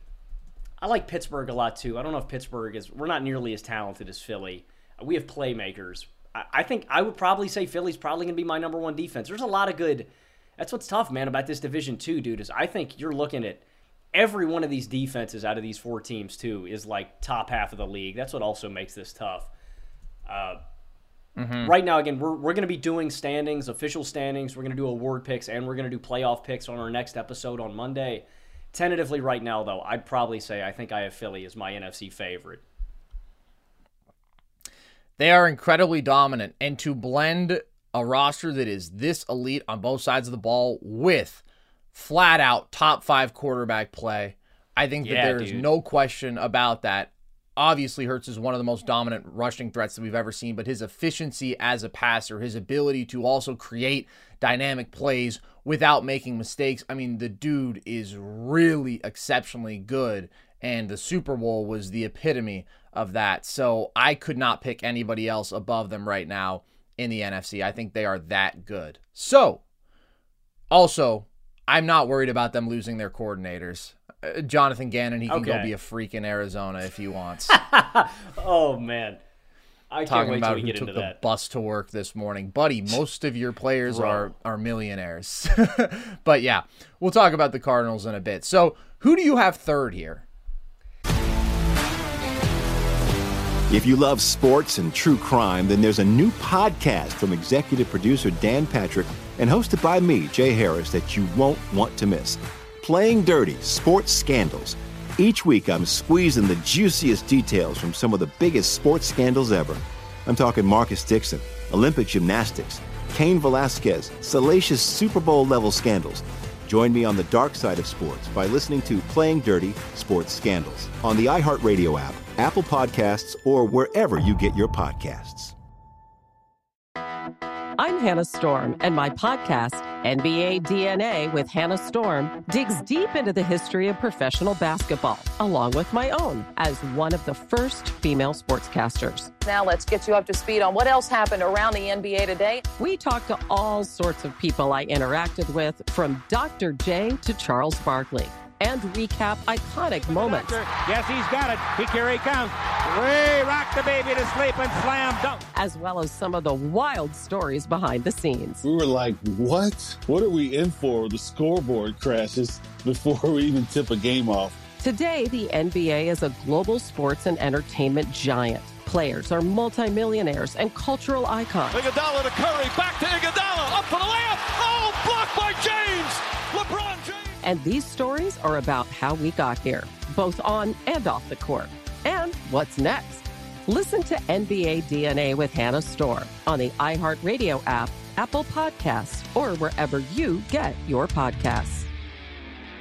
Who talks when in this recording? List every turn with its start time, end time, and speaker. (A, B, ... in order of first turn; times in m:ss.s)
0:00.8-0:19.5 A
0:20.3-0:20.6 A
0:21.4-0:21.7 B
0:21.6-0:32.6 A
0:35.2-0:41.4 B
0:41.9-1:09.6 B
0:45.0-0:45.7 A
1:10.7-1:17.6 B
1:15.3-1:15.7 A
1:17.5-1:19.2 A
1:19.9-1:21.2 A
1:20.1-1:30.3 B
1:23.9-1:24.3 A
1:33.7-2:05.5 C
2:07.8-2:19.3 D
2:19.4-2:22.6 E
2:22.8-2:30.6 D
2:30.1-2:35.5 F
2:35.5-2:38.6 D
2:38.6-2:44.6 G
2:44.8-2:51.8 D
2:51.7-2:57.3 H
2:57.4-3:11.9 D